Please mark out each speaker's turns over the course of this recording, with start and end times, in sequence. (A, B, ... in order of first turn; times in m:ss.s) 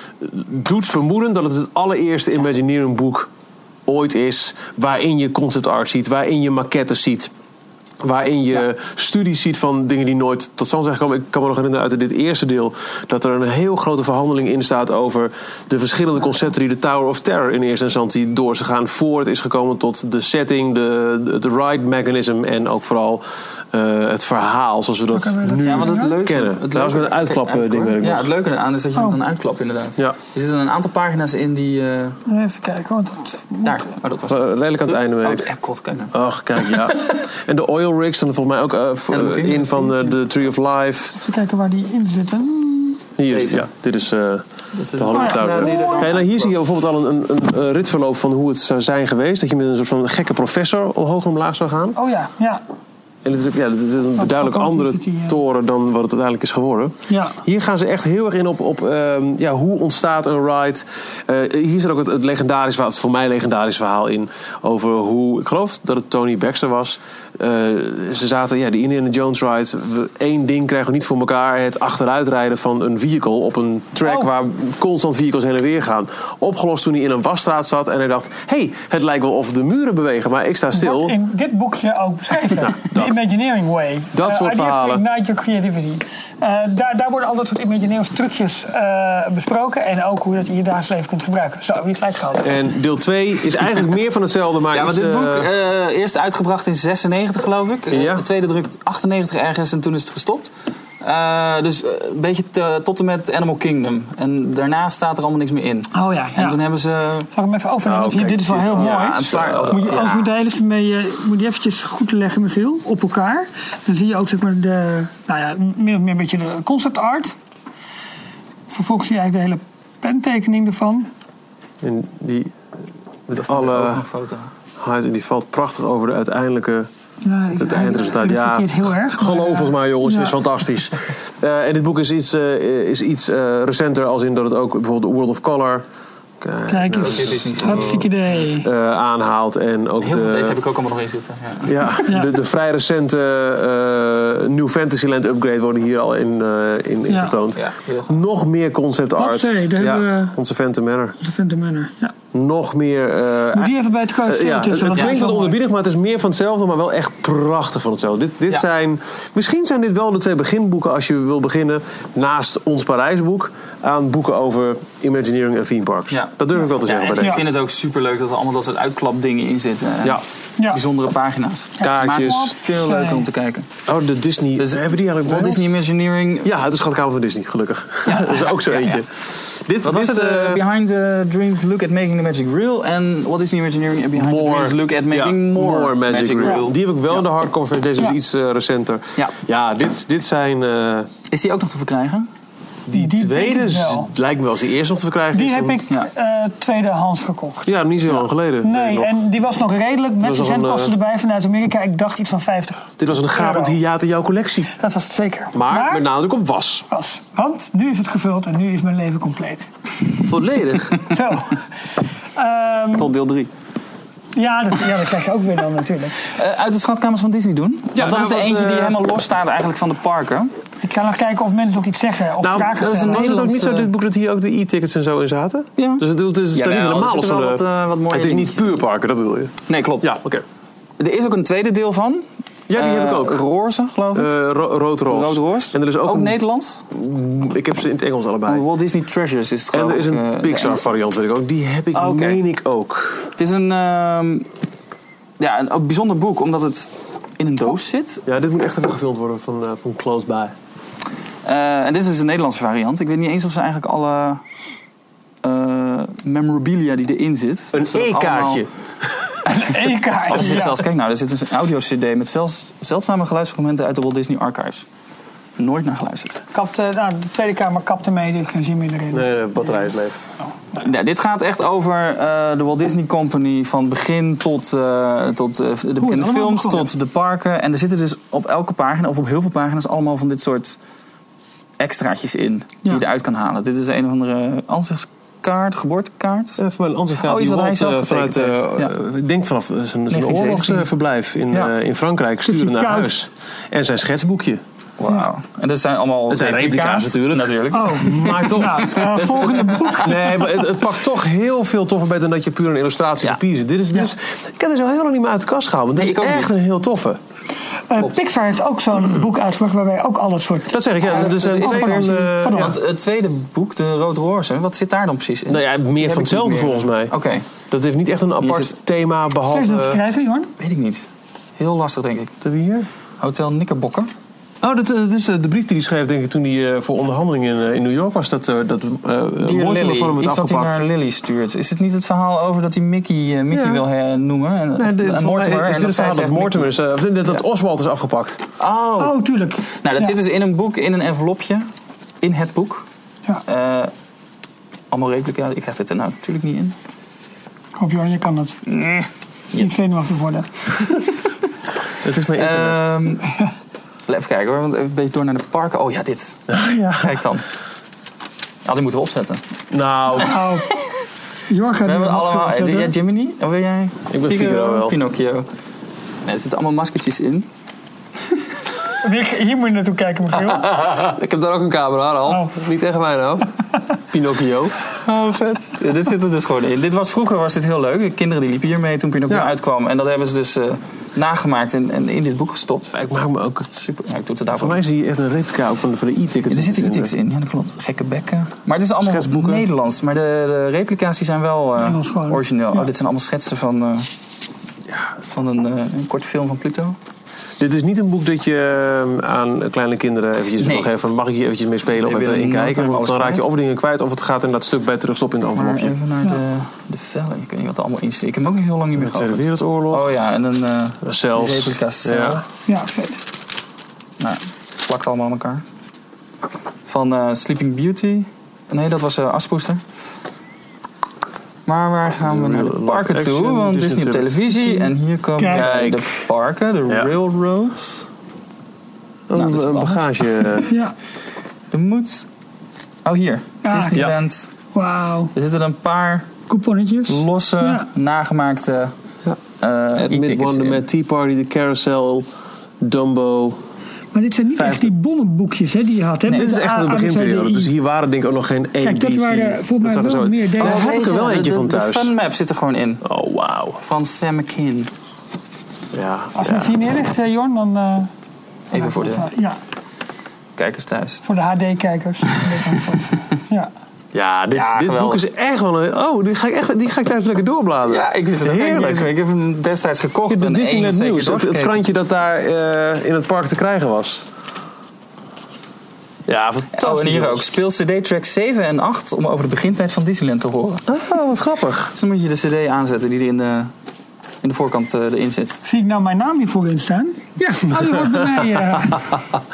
0:00.2-0:03.3 A
0:03.9-0:07.3 A
0:08.0-0:28.3 A
0:25.1-0:26.2 B
0:25.6-0:32.2 C
0:32.3-0:33.8 B
0:33.6-0:37.2 C
0:34.3-0:35.5 A
0:36.1-0:41.2 A
0:39.1-0:40.2 C
0:41.1-0:43.0 B
0:43.2-0:52.0 A
0:43.3-0:43.7 C
0:44.7-0:46.6 C
0:45.1-0:46.1 B
0:52.0-0:52.6 B
0:53.2-1:21.2 A
0:54.2-0:55.4 B
0:57.1-0:57.4 B
1:14.0-1:14.3 B
1:20.7-1:32.5 B
1:22.6-1:23.2 A
1:24.1-1:25.0 A
1:32.4-1:35.5 A
1:34.7-1:40.5 C
1:37.9-1:38.3 A
1:41.0-1:47.3 C
1:45.9-1:46.6 B
1:47.3-1:57.4 B
1:47.8-1:50.0 A
1:48.8-1:50.3 C
1:58.7-2:01.1 B
2:01.8-2:02.6 A
2:03.3-2:04.0 A
2:03.4-2:04.5 C
2:04.8-2:06.9 A
2:07.2-2:10.4 B
2:07.5-2:15.8 A
2:16.4-2:20.6 A
2:16.7-2:18.7 B
2:17.0-2:18.1 C
2:20.0-2:21.8 C
2:21.6-2:31.2 A
2:22.1-2:22.3 B
2:27.1-2:27.4 B
2:27.6-2:28.2 C
2:29.2-2:30.4 B
2:31.2-2:32.2 B
2:32.3-2:47.4 A
2:33.5-2:35.6 B
2:46.1-2:53.7 C
2:51.8-2:52.5 A
2:51.8-2:53.3 B
2:53.9-2:55.7 A
2:54.6-2:56.5 C
2:56.4-3:00.6 A
2:58.1-2:59.0 C
2:59.8-3:07.2 C
3:04.2-3:11.1 A
3:11.3-3:12.3 C
3:12.9-3:15.8 A
3:12.9-3:14.1 B
3:15.3-3:17.7 B
3:17.7-3:19.2 A
3:18.6-3:23.8 B
3:20.2-3:20.9 A
3:23.0-3:24.7 A
3:24.8-3:26.0 B
3:25.5-3:26.9 A
3:26.9-3:29.7 B
3:30.3-3:31.0 A
3:31.0-3:31.6 B
3:32.4-3:33.1 B
3:33.0-3:33.5 C
3:34.4-3:36.2 B
3:36.2-3:40.5 C
3:38.0-3:39.0 A
3:40.8-3:43.3 B
3:42.4-3:50.4 A
3:42.8-3:43.9 C
3:45.8-3:48.7 C
3:49.7-3:50.1 C
3:51.0-3:54.3 C
3:52.7-3:53.4 A
3:54.1-3:56.4 A
3:55.1-3:56.8 C
3:56.9-3:58.6 A
3:58.5-4:00.9 C
3:59.7-4:03.3 A
4:02.0-4:02.4 C
4:03.4-4:04.5 C
4:05.4-4:08.2 C
4:08.3-4:10.5 A
4:11.4-4:14.4 C
4:15.4-4:18.6 C
4:17.7-4:18.7 A
4:19.5-4:20.8 B
4:20.3-4:24.8 C
4:25.6-4:26.4 C
4:26.5-4:29.3 B
4:29.1-4:30.2 A
4:30.8-4:40.8 C
4:36.0-4:36.8 B
4:41.8-4:46.6 C
4:46.6-4:54.6 A
4:47.2-4:48.9 C
4:50.1-4:50.9 C
4:52.5-4:53.1 B
4:55.0-5:00.0 C
4:56.3-5:07.2 A
4:57.7-5:00.4 B
5:06.0-5:06.6 C
5:07.9-5:12.8 B
5:10.7-5:12.8 A
5:11.0-5:17.5 C
5:15.5-5:17.1 A
5:17.7-5:20.0 A
5:18.4-5:18.7 C
5:19.5-5:20.5 B
5:20.6-5:22.4 C
5:22.4-5:22.9 A
5:23.2-5:24.1 C
5:24.6-5:30.8 A
5:29.4-5:36.7 C
5:33.5-5:33.8 A
5:34.8-5:38.4 A
5:38.6-5:39.2 C
5:39.0-5:40.2 B
5:39.8-5:41.7 C
5:42.2-5:42.9 C
5:43.5-5:43.9 C
5:44.9-5:46.8 C
5:47.8-5:48.6 B
5:48.7-5:49.8 C
5:49.5-5:50.8 B
5:52.0-5:52.8 A
5:52.4-5:53.3 C
5:54.1-5:57.4 C
5:56.5-5:57.2 A
5:58.6-5:59.4 C
5:59.7-6:00.4 A
6:00.2-6:00.8 B
6:01.5-6:02.9 B
6:01.8-6:05.5 C
6:04.1-6:05.0 A
6:06.3-6:07.5 C
6:09.0-6:10.7 B
6:10.6-6:13.5 A
6:12.3-6:12.5 B
6:14.1-6:14.9 A
6:15.1-6:22.9 C
6:22.9-6:23.8 A
6:23.8-6:24.8 C
6:24.5-6:27.1 A
6:26.5-6:34.1 C
6:29.0-6:29.7 A
6:31.8-6:32.9 B
6:35.3-6:37.0 C
6:37.6-6:46.0 A
6:40.6-6:40.9 C
6:42.0-6:43.5 C
6:45.6-6:52.4 C
6:49.0-6:50.1 A
6:51.0-6:52.4 A
6:52.7-6:53.2 B
6:54.2-6:55.6 C
6:56.9-6:59.8 C
7:01.7-7:08.1 C
7:02.2-7:04.5 A
7:05.4-7:05.7 B
7:05.5-7:06.3 A
7:09.3-7:10.7 A
7:09.3-7:10.6 C
7:10.6-7:10.9 B
7:11.7-7:12.3 C
7:13.0-7:14.5 C
7:13.6-7:14.1 B
7:14.7-7:15.3 B
7:15.3-7:16.3 C
7:16.5-7:17.9 B
7:17.1-7:18.9 C
7:19.6-7:20.8 C
7:20.0-7:22.3 A
7:22.8-7:23.6 A
7:24.1-7:27.7 B
7:24.6-7:24.9 A
7:26.3-7:32.1 A
7:28.8-7:30.8 B
7:30.6-7:33.0 C
7:33.0-7:33.8 A
7:33.8-7:34.9 C
7:35.9-7:36.7 A
7:36.4-7:38.1 B
7:38.7-7:39.3 C
7:38.7-7:39.6 B
7:40.6-7:41.2 C
7:41.2-7:43.7 B
7:44.1-7:49.1 A
7:44.5-7:45.2 C
7:47.9-7:51.8 C
7:50.3-7:54.3 A
7:56.3-7:57.5 A
7:56.7-8:00.8 C
8:00.9-8:01.9 A
8:02.0-8:03.7 C
8:04.4-8:05.6 C
8:05.6-8:09.1 B